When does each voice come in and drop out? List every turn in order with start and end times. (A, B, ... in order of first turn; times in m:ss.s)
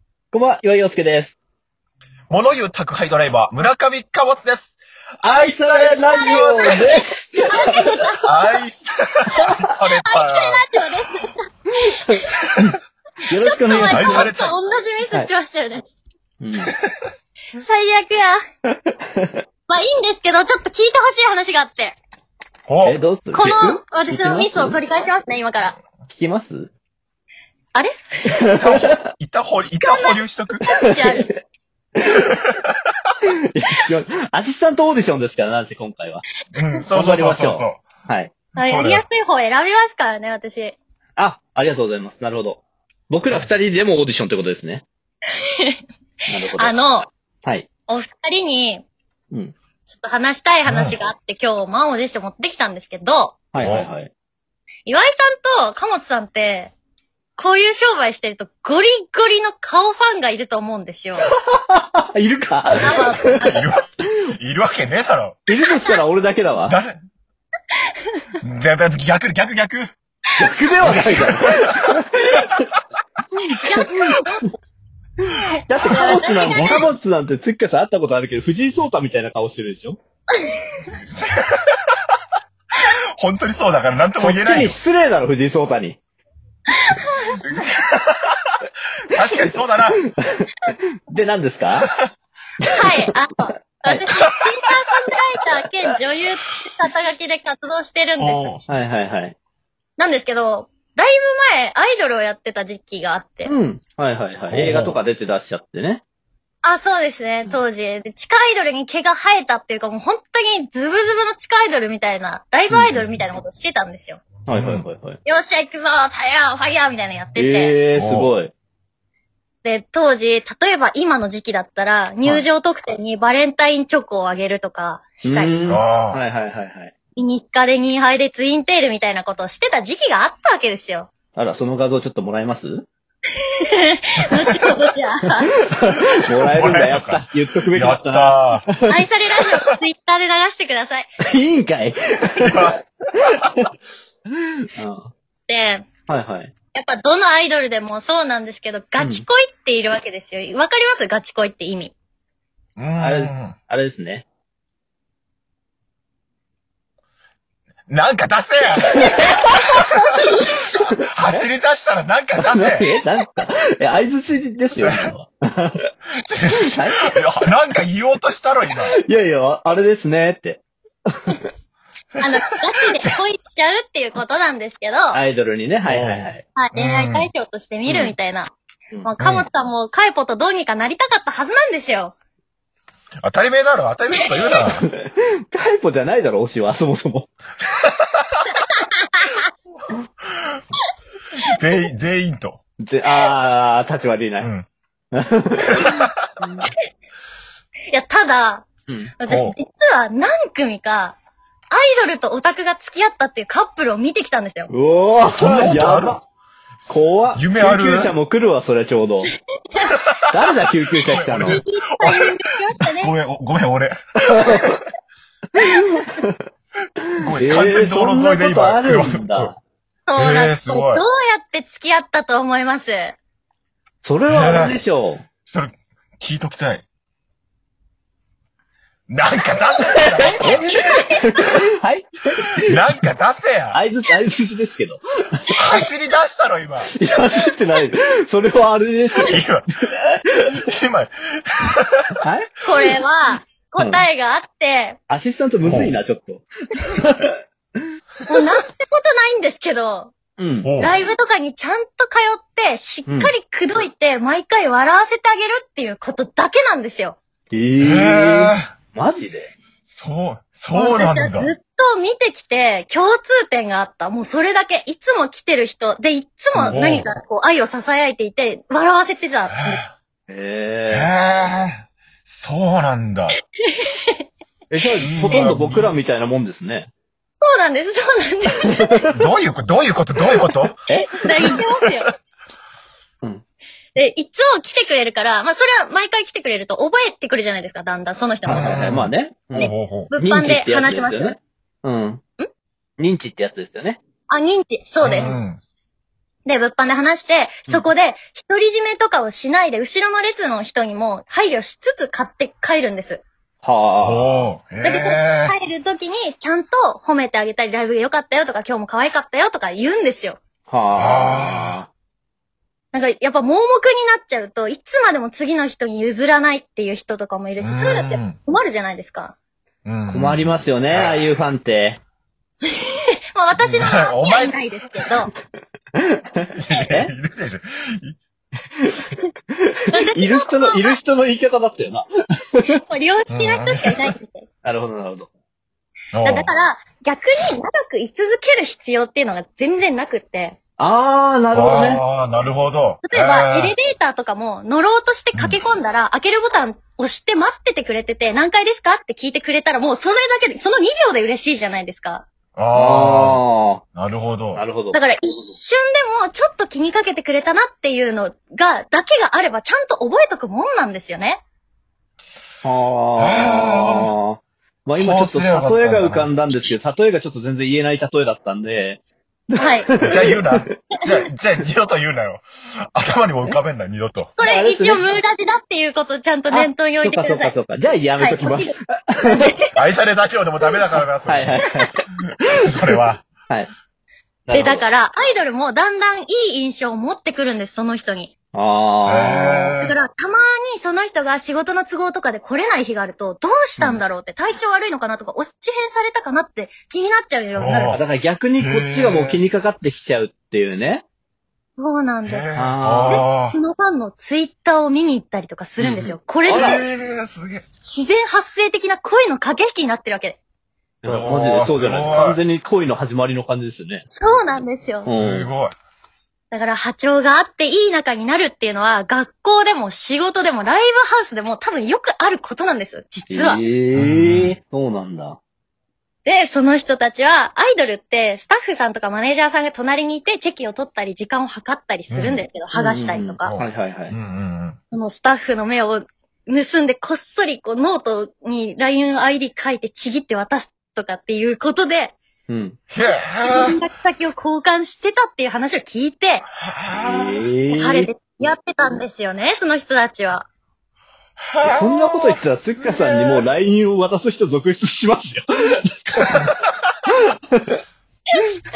0:00.3-0:01.4 A
0:02.3-0:04.8 B
0:05.2-0:07.7 A
0:05.6-0:08.2 C
0:05.9-0:07.0 B
0:08.2-0:10.6 B
0:10.0-0:12.6 C
0:12.1-0:12.8 A
0:13.3-0:14.3 A
0:13.4-0:15.9 C
0:13.7-0:14.6 B
0:16.4-0:16.7 A
0:17.5-0:18.4 C
0:18.7-0:19.4 A
0:19.7-0:22.0 C
0:22.7-0:23.0 B
0:22.8-0:24.8 A
0:23.3-0:25.8 C
0:26.1-0:26.7 A
0:28.5-0:28.9 A
0:28.6-0:30.8 B
0:29.8-0:31.3 C
0:32.2-0:33.1 B
0:33.5-0:36.2 A
0:36.5-0:37.9 B
0:36.9-0:38.4 A
0:38.5-0:39.0 B
0:38.6-0:40.8 C
0:41.2-0:44.8 A
0:45.4-0:45.8 C
0:46.3-0:46.8 A
0:46.6-0:47.1 C
0:47.9-0:48.8 C
0:49.8-0:53.3 C
0:50.6-0:51.0 B
0:53.5-0:54.1 A
0:53.6-0:53.9 B
0:54.9-0:56.7 C
0:57.4-1:01.3 C
1:01.5-1:03.5 A
1:02.8-1:05.4 B
1:02.8-1:03.6 C
1:05.5-1:06.8 A
1:06.7-1:06.9 B
1:07.7-1:08.2 C
1:08.4-1:09.9 B
1:10.4-1:12.6 A
1:10.8-1:11.9 B
1:13.5-1:14.5 C
1:13.5-1:14.2 A
1:15.3-1:20.0 A
1:15.9-1:16.8 B
1:15.9-1:16.9 C
1:20.4-1:20.9 C
1:21.0-1:21.7 B
1:22.9-1:24.8 B
1:24.2-1:26.0 A
1:26.7-1:27.4 C
1:27.4-1:30.0 B
1:30.1-1:31.9 A
1:32.6-1:38.5 C
1:33.7-1:34.1 A
1:38.2-1:38.6 B
1:38.7-1:39.4 A
1:40.0-1:43.5 C
1:43.4-1:46.0 A
1:44.5-1:45.0 B
1:46.6-1:54.2 C
1:52.7-1:53.0 A
1:54.5-1:55.2 A
1:54.5-1:54.8 B
1:55.2-1:57.7 C
1:57.4-1:58.5 A
1:57.9-1:58.3 B
1:59.6-2:05.7 C
2:05.2-2:06.9 A
2:05.7-2:06.2 B
2:07.2-2:11.1 C
2:11.3-2:12.9 A
2:13.4-2:15.5 C
2:15.7-2:18.9 A
2:15.9-2:18.6 B
2:18.9-2:21.1 C
2:21.2-2:22.8 A
2:22.4-2:23.6 B
2:24.7-2:25.1 A
2:25.5-2:25.9 C
2:26.1-2:26.5 A
2:26.7-2:31.9 C
2:29.0-2:29.2 A
2:32.8-2:33.5 B
2:33.0-2:34.2 A
2:37.9-2:42.9 B
2:42.4-2:45.9 A
2:44.8-2:45.1 B
2:46.2-2:49.0 B
2:46.6-2:47.2 A
2:48.9-2:50.6 A
2:52.2-2:55.2 C
2:55.1-2:56.4 A
2:55.9-2:57.3 B
2:56.6-2:58.5 C
2:57.9-2:58.1 A
2:59.0-3:02.1 C
2:59.2-2:59.5 B
3:03.2-3:04.9 B
3:04.9-3:07.3 A
3:07.9-3:08.5 B
3:08.5-3:09.5 C
3:09.8-3:10.6 B
3:11.4-3:12.6 B
3:12.8-3:14.5 A
3:14.4-3:14.7 B
3:15.1-3:16.7 A
3:15.6-3:16.2 B
3:17.9-3:18.7 C
3:18.9-3:19.1 A
3:19.2-3:21.2 C
3:19.3-3:19.6 B
3:21.7-3:24.7 C
3:24.7-3:26.2 A
3:25.3-3:26.2 B
3:26.8-3:28.1 B
3:26.9-3:29.3 A
3:30.0-3:30.4 B
3:30.3-3:31.6 A
3:31.0-3:34.7 B
3:31.4-3:33.1 C
3:34.2-3:34.8 A
3:35.6-3:36.4 A
3:37.2-3:39.5 B
3:37.4-3:39.6 A
3:40.1-3:43.2 C
3:40.2-3:41.0 B
3:44.0-3:45.3 A
3:44.3-3:44.8 B
3:45.4-3:46.8 B
3:49.1-3:50.8 B
3:50.4-3:52.8 A
3:50.7-3:51.4 C
3:52.5-3:53.8 B
3:53.7-3:55.0 A
3:55.5-3:56.9 B
3:56.8-3:59.4 A
3:59.2-3:59.6 B
4:00.5-4:02.1 B
4:02.2-4:02.6 A
4:02.6-4:05.0 C
4:03.8-4:04.0 A
4:05.1-4:07.3 A
4:05.6-4:06.0 B
4:08.3-4:10.1 C
4:10.4-4:10.7 A
4:10.6-4:11.0 B
4:10.8-4:17.2 C
4:13.1-4:13.3 A
4:17.5-4:19.5 A
4:17.8-4:18.7 B
4:19.8-4:21.5 B
4:20.7-4:29.8 C
4:26.6-4:27.1 B
4:29.5-4:29.9 B
4:30.3-4:31.1 A
4:30.9-4:33.3 B
4:33.6-4:34.2 C
4:34.7-4:36.9 A
4:35.0-4:35.9 B
4:35.3-4:35.6 C
4:37.4-4:39.0 C
4:39.1-4:40.8 B
4:40.9-4:41.6 A
4:41.2-4:42.1 C
4:44.0-4:48.9 C
4:48.4-4:52.2 A
4:48.5-4:50.1 B
4:49.5-4:51.4 C
4:53.0-4:54.0 A
4:54.3-4:55.4 C
4:55.0-4:55.6 B
4:55.0-4:55.4 A
4:56.4-5:03.2 C
5:03.6-5:04.5 A
5:04.0-5:05.5 B
5:04.8-5:10.4 C
5:10.7-5:11.9 A
5:10.9-5:11.8 B
5:12.9-5:19.4 C
5:17.6-5:18.4 B
5:19.8-5:21.3 B
5:20.1-5:22.0 A
5:22.6-5:25.3 C
5:23.6-5:24.6 B
5:26.4-5:27.1 A
5:26.5-5:28.2 B
5:28.8-5:29.1 A
5:29.9-5:31.0 C
5:30.1-5:32.7 A
5:32.8-5:34.5 C
5:33.3-5:34.1 B
5:34.6-5:35.3 A
5:36.1-5:36.5 B
5:36.2-5:40.6 C
5:40.8-5:42.0 A
5:41.5-5:43.7 B
5:43.0-5:52.2 C
5:45.3-5:45.6 B
5:52.6-5:53.4 B
5:52.7-5:53.8 A
5:53.9-5:54.6 B
5:54.5-5:55.0 A
5:54.9-6:01.4 C
6:02.6-6:09.0 A
6:03.2-6:04.1 B
6:04.9-6:06.3 B
6:09.5-6:10.8 A
6:09.6-6:09.9 C
6:10.0-6:14.4 B
6:14.4-6:17.5 C
6:14.4-6:15.1 A
6:16.5-6:19.4 A
6:18.2-6:18.8 C
6:19.3-6:19.7 C
6:19.7-6:23.3 B
6:21.2-6:22.0 A
6:24.5-6:24.8 A
6:24.5-6:28.3 C
6:28.5-6:29.7 A
6:29.0-6:29.9 B
6:29.8-6:38.0 C
6:37.6-6:38.0 B
6:37.9-6:41.0 A
6:38.6-6:39.4 B
6:41.8-6:42.5 C
6:42.2-6:43.6 B
6:42.5-6:43.2 A
6:43.0-6:46.8 C
6:45.8-6:47.6 B
6:46.5-6:46.8 A
6:47.8-6:50.4 C
6:51.0-6:54.0 A
6:51.0-6:52.4 B
6:54.1-6:55.1 C
6:55.0-6:55.7 B
6:55.0-6:55.5 A
6:56.5-7:03.6 C
7:03.3-7:05.4 A
7:03.9-7:04.6 B
7:06.2-7:13.6 C
7:12.1-7:12.4 B
7:12.7-7:14.1 A
7:13.4-7:14.8 B
7:14.9-7:22.2 C
7:22.5-7:22.8 A
7:22.9-7:23.8 B
7:23.4-7:26.4 C
7:26.6-7:27.5 B
7:26.9-7:28.1 A
7:27.7-7:30.5 C
7:31.4-7:33.5 B
7:31.6-7:36.5 A
7:36.3-7:36.6 B
7:37.1-7:37.8 A